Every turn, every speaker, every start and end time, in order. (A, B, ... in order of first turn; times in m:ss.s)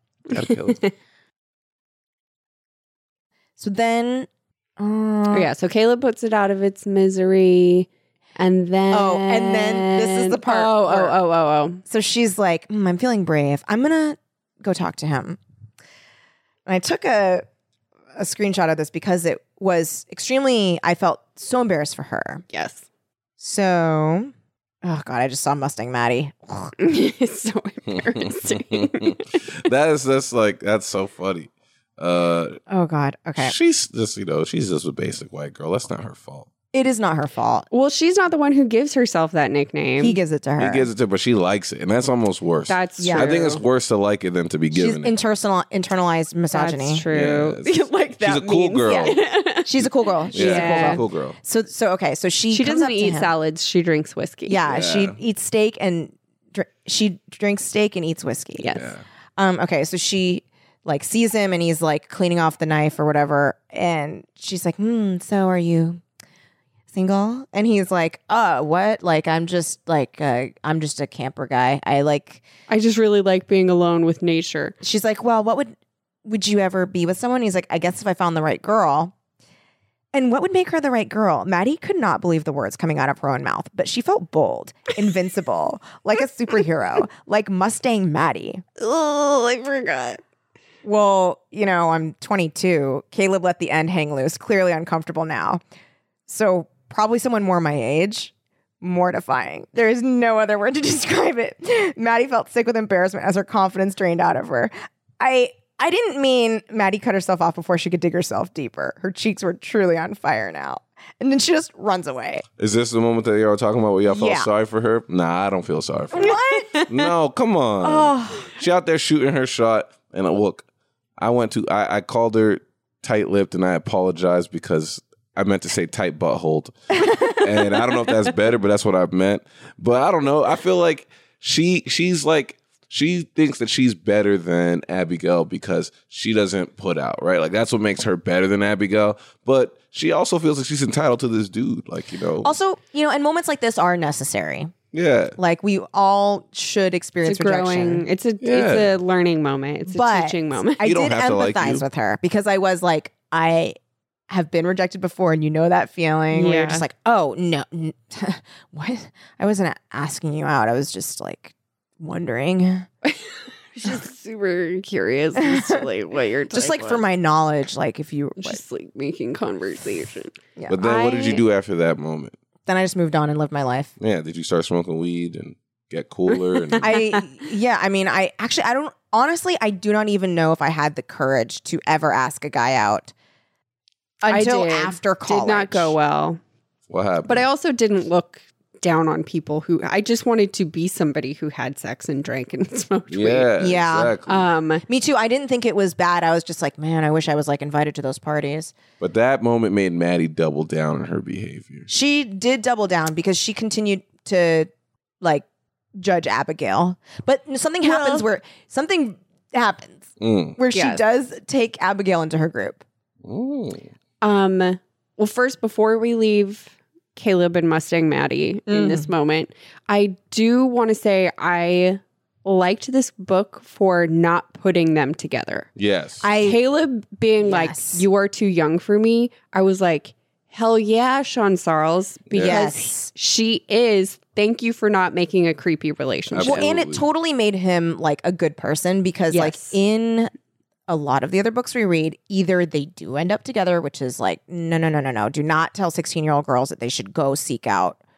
0:00.3-0:00.8 A
0:00.3-0:00.9 B
0:03.6-0:05.5 C
0:05.3-0:11.8 B
0:08.9-0:11.2 C
0:11.9-0:15.4 C
0:16.7-0:17.4 C
0:18.2-0:22.4 C
0:22.5-0:22.8 B
0:23.4-0:26.8 C
0:26.8-0:29.4 B
0:27.9-0:32.6 A
0:32.7-0:33.6 C
0:33.4-0:36.5 A
0:36.7-0:37.7 C
0:37.7-0:40.2 B
0:40.0-0:40.9 C
0:40.6-0:45.1 A
0:42.7-0:43.6 B
0:43.0-0:43.3 C
0:44.7-0:47.1 C
0:46.5-0:49.7 B
0:47.1-0:49.2 A
0:48.9-0:53.3 C
0:50.3-0:51.0 B
0:50.3-0:51.4 A
0:52.5-0:54.6 B
0:54.5-0:58.8 C
0:54.7-0:55.2 A
0:58.6-0:58.9 B
0:58.7-0:59.0 A
0:59.4-1:06.0 C
1:06.9-1:12.4 C
1:12.7-1:14.8 B
1:14.8-1:15.7 C
1:16.2-1:19.1 C
1:20.1-1:28.6 C
1:28.8-1:30.2 B
1:30.8-1:35.6 C
1:36.3-1:52.4 C
1:52.6-2:00.6 A
1:54.1-1:54.5 C
1:56.1-1:56.8 C
1:56.5-1:57.1 B
1:57.8-1:58.5 C
2:01.2-2:06.7 A
2:07.3-2:22.5 A
2:22.4-2:24.7 C
2:24.9-2:25.4 A
2:25.4-2:28.0 C
2:27.2-2:30.8 B
2:28.4-2:28.9 A
2:29.9-2:33.8 C
2:30.8-2:31.8 A
2:34.3-2:42.9 C
2:36.3-2:36.8 B
2:43.0-2:47.0 B
2:45.4-2:45.8 C
2:46.5-2:48.6 C
2:48.4-2:51.4 B
2:50.7-2:52.4 A
2:52.7-2:53.9 C
2:54.0-2:56.9 A
2:56.3-2:57.2 B
2:56.8-3:03.1 C
3:04.2-3:06.0 C
3:04.3-3:06.4 B
3:06.9-3:07.5 A
3:07.2-3:13.5 B
3:13.1-3:14.4 A
3:13.6-3:14.2 C
3:14.3-3:14.8 B
3:14.9-3:18.7 C
3:19.0-3:21.9 A
3:21.9-3:24.7 C
3:26.0-3:32.8 C
3:27.8-3:28.3 B
3:30.2-3:30.6 A
3:30.7-3:31.0 B
3:33.2-3:33.9 A
3:34.2-3:45.7 B
3:38.7-3:39.1 C
3:45.8-3:46.2 A
3:46.2-3:46.6 C
3:46.4-3:56.7 B
3:47.4-3:48.0 C
3:52.3-3:52.6 A
3:52.4-3:53.1 C
3:56.3-3:57.0 A
3:56.4-4:00.3 C
3:59.3-3:59.8 B
4:00.9-4:08.0 C